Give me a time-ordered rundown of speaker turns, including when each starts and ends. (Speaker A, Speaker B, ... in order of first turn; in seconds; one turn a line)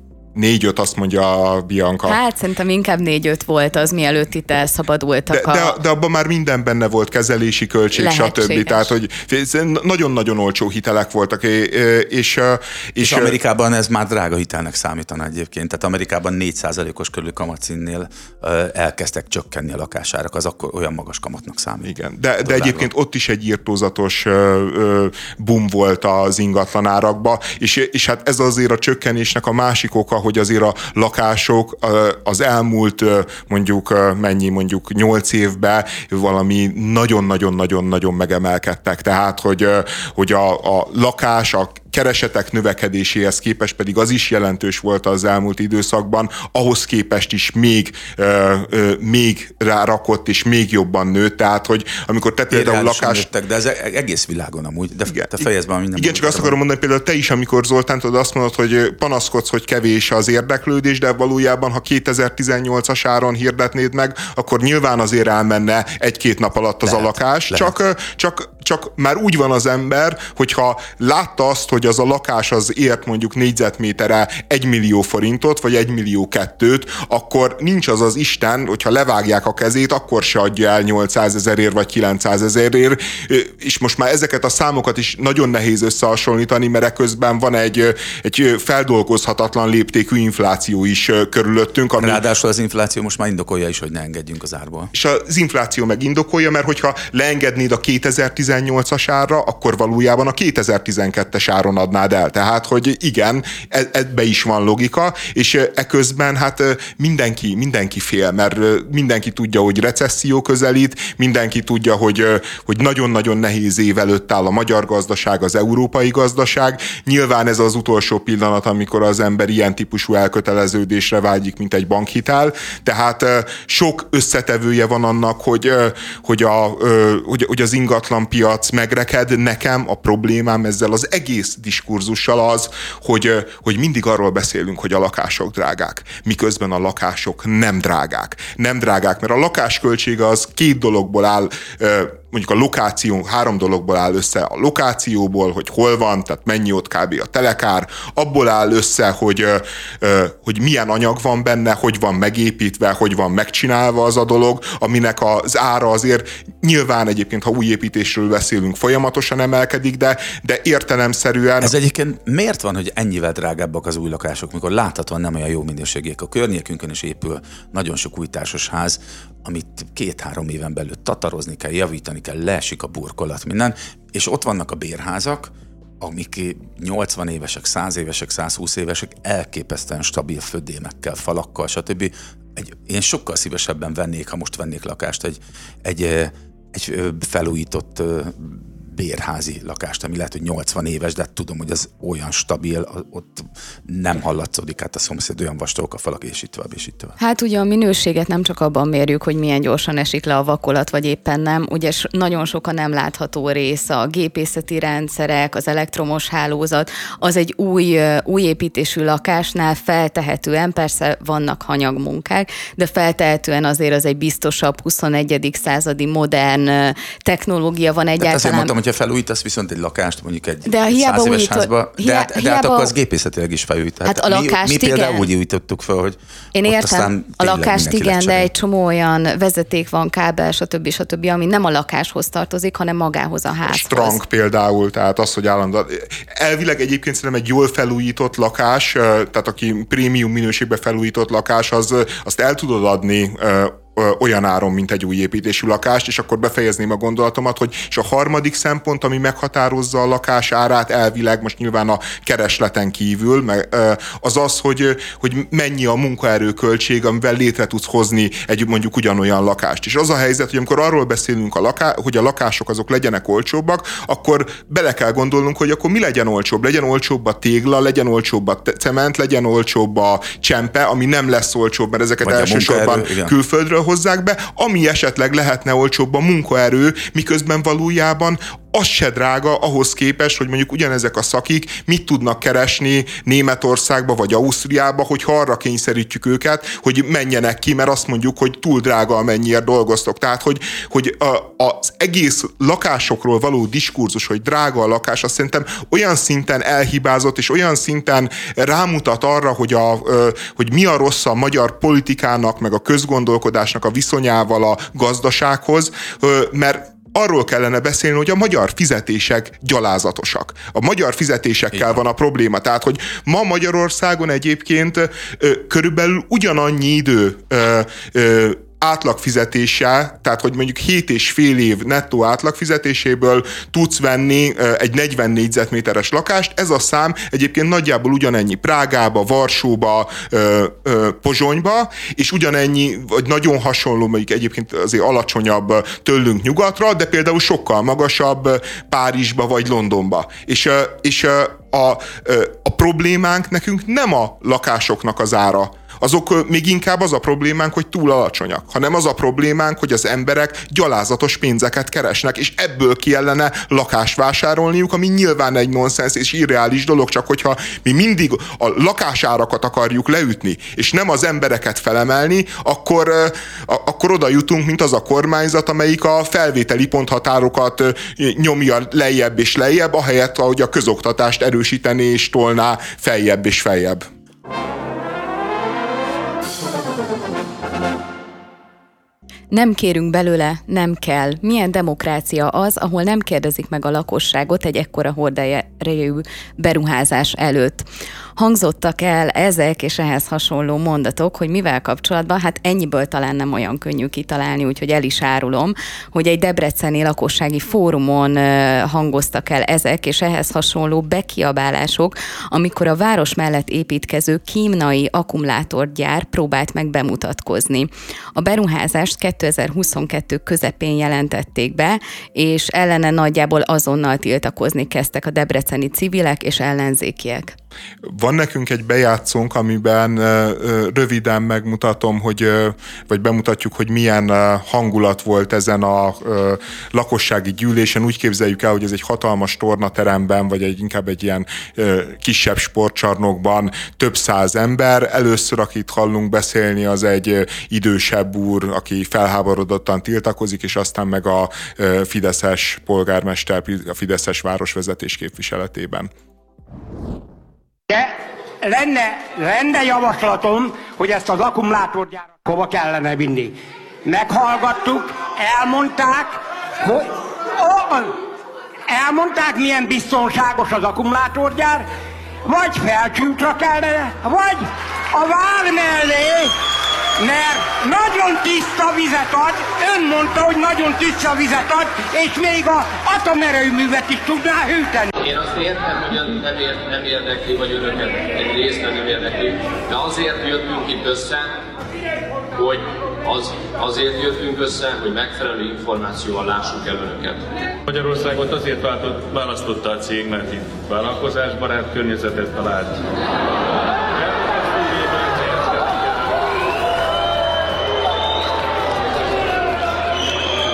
Speaker A: 0.3-2.2
Speaker B: 2.0-5.8
Speaker A: 5.3-13.4
Speaker B: 7.9-8.9
Speaker C: 13.0-22.9
Speaker A: 21.8-53.3
Speaker C: 52.5-56.6
Speaker A: 56.0-92.2
Speaker C: 66.8-67.7
Speaker C: 92.0-94.9
Speaker A: 94.9-161.7
Speaker C: 161.6-197.2
Speaker B: 197.2-218.7
Speaker C: 218.2-228.5
Speaker B: 220.7-222.9
Speaker B: 224.0-225.3
Speaker B: 226.5-234.2
Speaker A: 233.6-374.0
Speaker C: 272.2-273.3
Speaker B: 379.5-387.9
Speaker B: 388.4-417.5
Speaker A: 418.1-446.1
Speaker D: 447.9-458.2
Speaker D: 458.9-461.9
Speaker D: 462.4-466.5
Speaker D: 467.2-475.1
Speaker E: 475.2-481.6
Speaker E: 482.5-487.4
Speaker F: 487.9-493.1
Speaker F: 494.4-495.9